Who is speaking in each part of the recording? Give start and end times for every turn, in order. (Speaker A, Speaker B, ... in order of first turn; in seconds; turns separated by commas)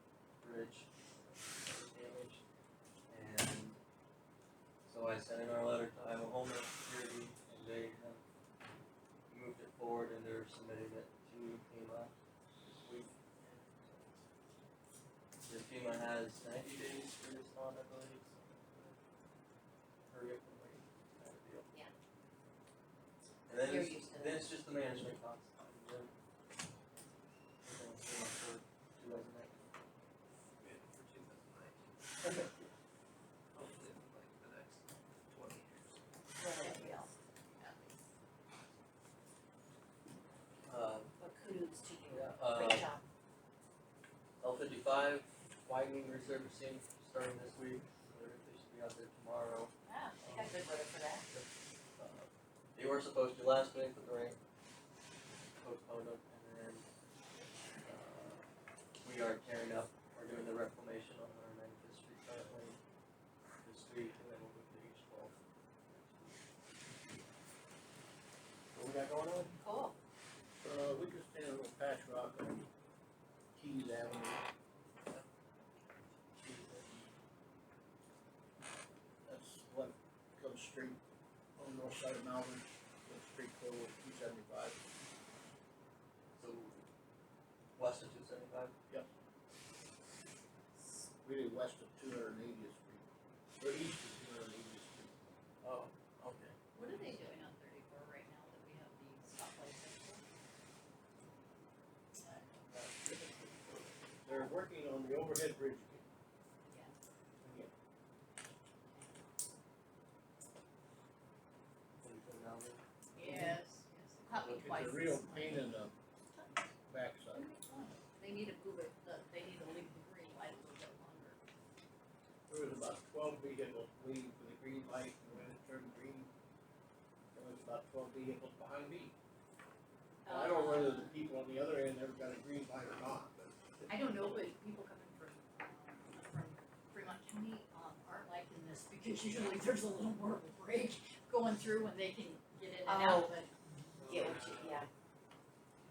Speaker A: 0.4-2.4, Speaker A: 3.1-3.8, Speaker A: 4.8-8.2, Speaker A: 9.3-12.1, Speaker A: 12.6-14.2, Speaker A: 15.4-19.0, Speaker A: 20.1-21.7, Speaker A: 23.5-26.1, Speaker B: 23.5-24.6, Speaker A: 27.6-29.8, Speaker C: 30.6-31.9, Speaker C: 33.5-36.0, Speaker B: 36.4-37.1, Speaker D: 36.5-37.9, Speaker A: 40.6-41.1, Speaker B: 41.2-43.0, Speaker A: 42.3-42.9, Speaker A: 44.4-50.6, Speaker B: 49.8-51.3, Speaker A: 51.3-54.4, Speaker A: 55.6-56.9, Speaker A: 57.8-58.5, Speaker A: 59.0-62.8, Speaker A: 63.6-65.3, Speaker A: 65.9-66.4, Speaker A: 68.7-69.5, Speaker B: 69.6-70.0, Speaker E: 70.6-72.7, Speaker E: 73.5-74.5, Speaker A: 76.4-77.1, Speaker E: 79.2-81.0, Speaker E: 81.6-84.8, Speaker A: 86.3-86.9, Speaker A: 87.8-88.7, Speaker E: 91.2-93.0, Speaker E: 93.6-95.1, Speaker A: 95.6-97.3, Speaker D: 96.7-100.2, Speaker D: 102.2-102.6, Speaker A: 102.6-104.0, Speaker E: 104.2-106.0, Speaker D: 106.6-106.9, Speaker E: 107.4-107.7, Speaker A: 112.0-113.5, Speaker D: 113.1-115.8, Speaker E: 114.3-115.9, Speaker E: 116.9-117.5, Speaker D: 117.3-121.4, Speaker E: 122.5-126.3, Speaker E: 127.3-129.1, Speaker B: 130.2-131.1, Speaker E: 130.2-133.9, Speaker D: 133.9-143.5, Speaker B: 142.8-143.3, Speaker B: 144.1-144.9, Speaker A: 144.2-144.5